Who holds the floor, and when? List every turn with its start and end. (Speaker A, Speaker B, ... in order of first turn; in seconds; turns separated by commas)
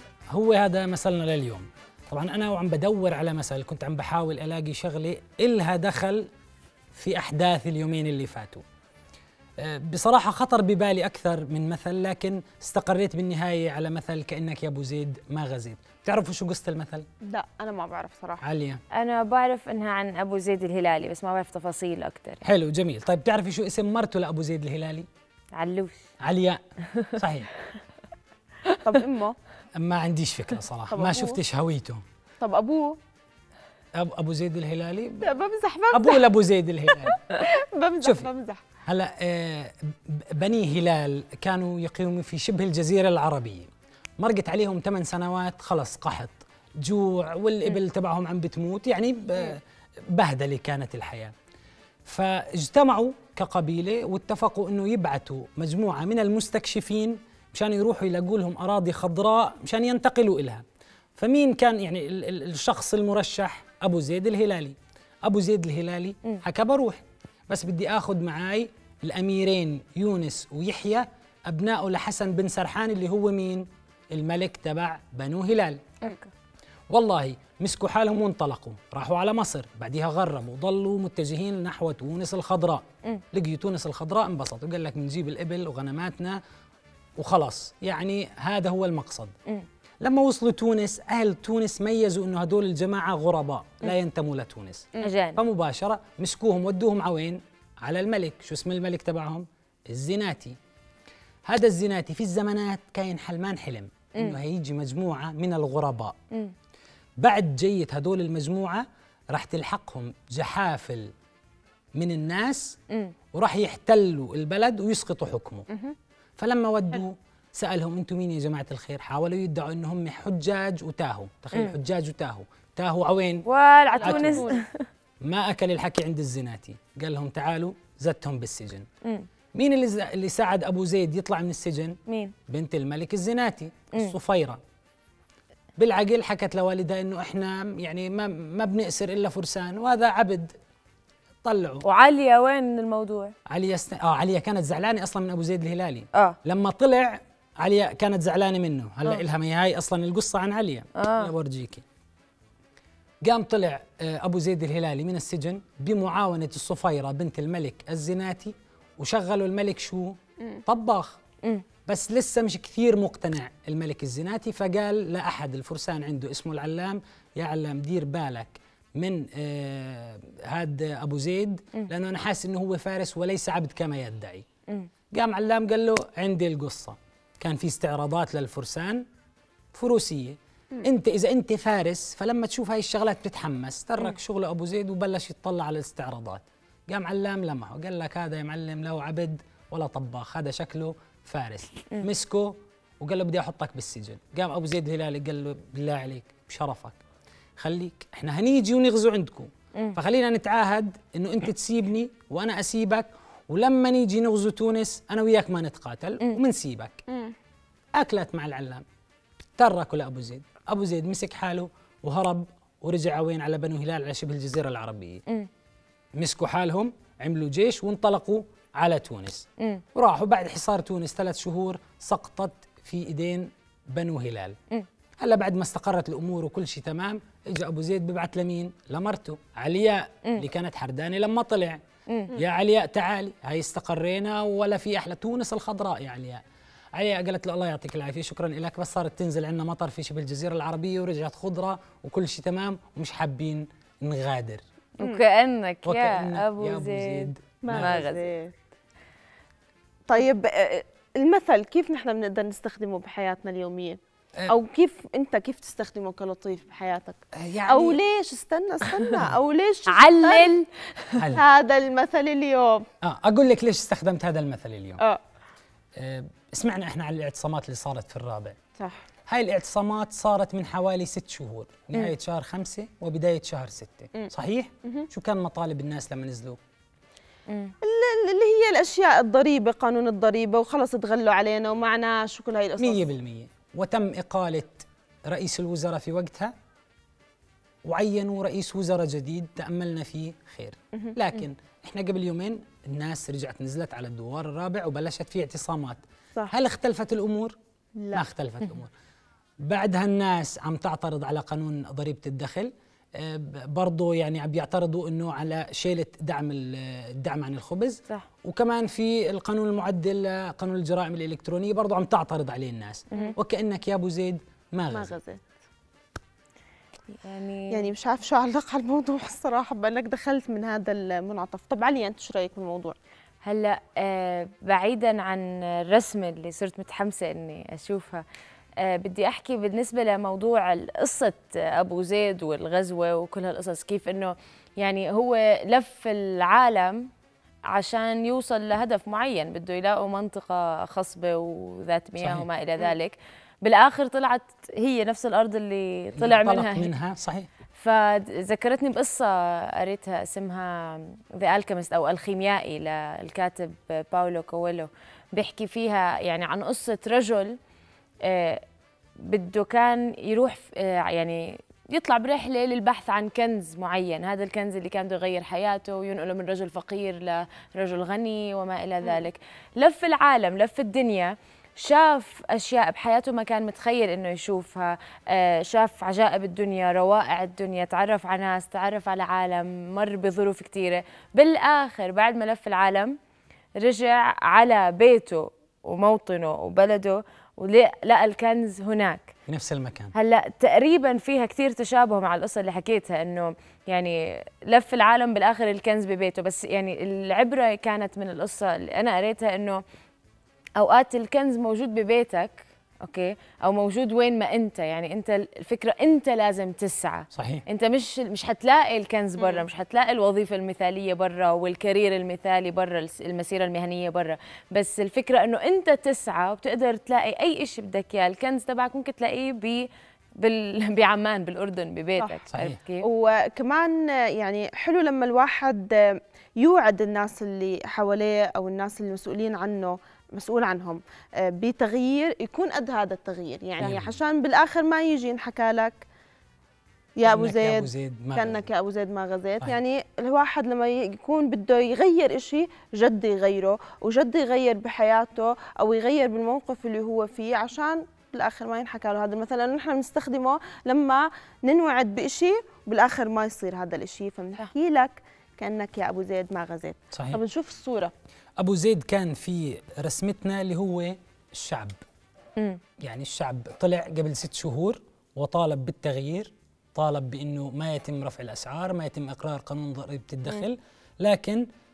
Speaker A: 0.3-6.3, Speaker A: 6.9-8.6, Speaker A: 9.6-17.1, Speaker B: 17.2-18.4, Speaker A: 18.4-18.8, Speaker C: 18.9-22.4, Speaker A: 22.4-25.1, Speaker C: 25.5-26.0, Speaker A: 26.2-26.6, Speaker A: 27.1-27.5, Speaker B: 28.8-29.4, Speaker A: 29.8-32.0, Speaker B: 30.9-31.4, Speaker B: 32.4-33.0, Speaker A: 34.0-35.3, Speaker B: 35.2-36.3, Speaker A: 35.9-37.2, Speaker B: 37.0-38.6, Speaker A: 38.0-38.3, Speaker A: 38.8-51.3, Speaker A: 52.0-60.6, Speaker A: 61.2-76.1, Speaker C: 76.0-76.3, Speaker A: 76.9-86.4, Speaker A: 87.2-89.3, Speaker A: 90.0-100.6, Speaker C: 95.0-95.4, Speaker A: 101.5-106.2, Speaker A: 107.2-111.1, Speaker A: 112.0-112.8, Speaker A: 113.3-115.7, Speaker B: 115.7-116.0, Speaker A: 116.4-123.5, Speaker C: 123.4-124.7, Speaker B: 123.9-124.6, Speaker A: 124.0-124.4, Speaker A: 125.2-128.8, Speaker A: 129.6-132.0, Speaker C: 132.1-132.3, Speaker A: 132.5-134.6, Speaker A: 135.8-140.6, Speaker A: 141.4-141.8, Speaker C: 141.8-143.3, Speaker A: 143.5-151.8, Speaker C: 150.9-151.3, Speaker A: 153.2-161.2, Speaker A: 161.9-174.4, Speaker A: 175.1-179.1, Speaker A: 179.7-197.0, Speaker A: 197.6-207.0, Speaker B: 207.1-207.3, Speaker A: 207.9-208.8, Speaker A: 209.6-215.2, Speaker A: 216.2-224.6, Speaker A: 225.2-231.8, Speaker C: 232.1-232.4, Speaker A: 232.3-236.4, Speaker A: 236.9-244.6, Speaker C: 245.0-248.3, Speaker A: 245.8-248.0, Speaker B: 247.6-248.6, Speaker B: 250.1-260.5, Speaker A: 257.3-258.0, Speaker C: 259.9-261.4, Speaker A: 261.2-261.4, Speaker B: 261.3-262.9, Speaker A: 263.0-265.0, Speaker A: 266.0-268.6, Speaker B: 268.8-269.1, Speaker A: 269.3-276.6, Speaker C: 277.5-277.7, Speaker B: 277.8-283.1, Speaker A: 282.8-286.5, Speaker A: 287.9-297.6, Speaker B: 298.0-298.2, Speaker A: 298.1-298.9, Speaker A: 299.6-315.2, Speaker B: 314.9-315.4, Speaker C: 317.1-317.9, Speaker B: 317.7-322.9, Speaker C: 323.4-328.2, Speaker C: 328.8-337.1, Speaker C: 337.7-346.9, Speaker A: 342.2-342.5, Speaker A: 346.2-347.5, Speaker C: 347.8-357.6, Speaker C: 358.2-358.6, Speaker C: 359.2-383.2, Speaker C: 383.8-389.3, Speaker A: 389.5-390.1, Speaker C: 390.1-399.8, Speaker C: 400.8-423.1, Speaker A: 407.3-407.6, Speaker B: 409.4-409.7, Speaker A: 422.5-422.8, Speaker B: 423.0-436.1, Speaker A: 433.8-434.2, Speaker B: 437.2-458.1, Speaker A: 437.2-438.7, Speaker A: 457.1-457.4, Speaker A: 458.6-461.9, Speaker A: 463.0-471.7